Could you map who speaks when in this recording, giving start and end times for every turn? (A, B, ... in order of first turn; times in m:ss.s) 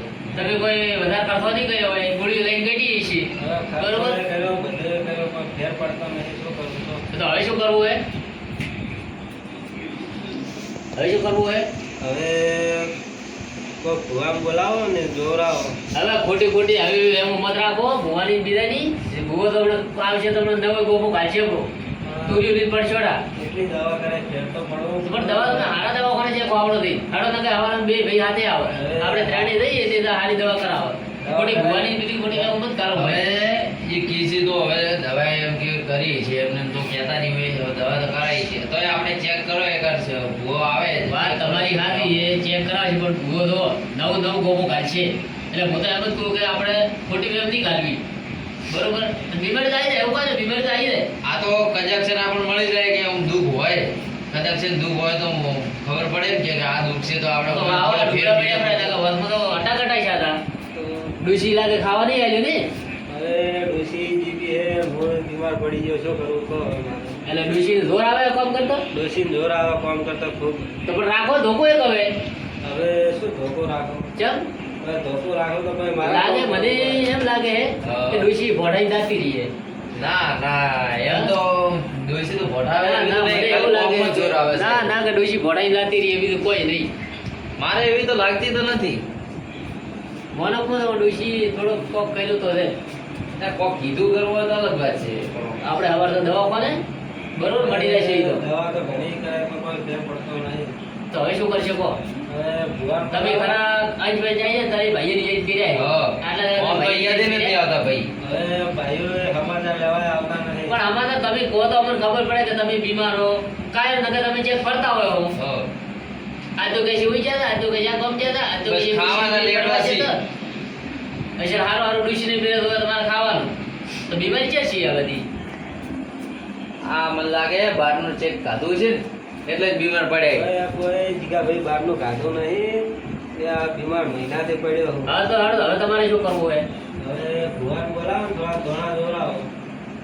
0:00.3-0:04.2 A
0:03.4-0:07.0 B
0:07.1-0:08.0 A
0:10.9-0:11.6 A
0:12.0-0:12.9 B
0:13.8-0:15.8 B
0:15.9-0:21.7 A
0:22.0-0:22.5 B
0:22.2-0:23.2 A
0:23.3-0:25.8 B
0:25.0-0:33.2 A
0:28.7-0:29.5 B
0:31.2-0:32.5 B
0:32.9-0:42.3 C
0:41.1-0:48.0 A
0:48.7-0:51.1 A
0:51.2-0:59.0 C
0:57.5-1:00.4 A
1:00.7-1:01.0 B
1:01.2-1:02.6 A
1:03.1-1:07.1 B
1:07.2-1:08.8 A
1:08.9-1:10.7 B
1:10.8-1:12.1 A
1:12.6-1:14.1 B
1:14.2-1:14.4 A
1:14.8-1:17.1 B
1:16.0-1:19.5 A
1:17.8-1:18.3 C
1:19.9-1:24.9 C
1:21.0-1:21.3 A
1:22.8-1:26.9 A
1:27.6-1:29.0 C
1:30.3-1:32.8 A
1:33.3-1:35.7 C
1:35.6-1:36.8 A
1:37.4-1:38.4 A
1:37.6-1:40.7 B
1:41.1-1:42.0 A
1:42.3-1:43.6 B
1:43.1-1:47.6 A
1:45.7-1:48.1 C
1:48.2-1:50.8 B
1:50.7-1:55.3 A
1:55.4-1:55.7 C
1:56.6-2:00.2 A
1:58.6-2:00.1 C
2:01.4-2:03.5 A
2:04.1-2:05.2 A
2:06.8-2:10.5 C
2:10.3-2:12.8 B
2:13.4-2:15.1 B
2:15.0-2:16.7 A
2:17.0-2:19.5 B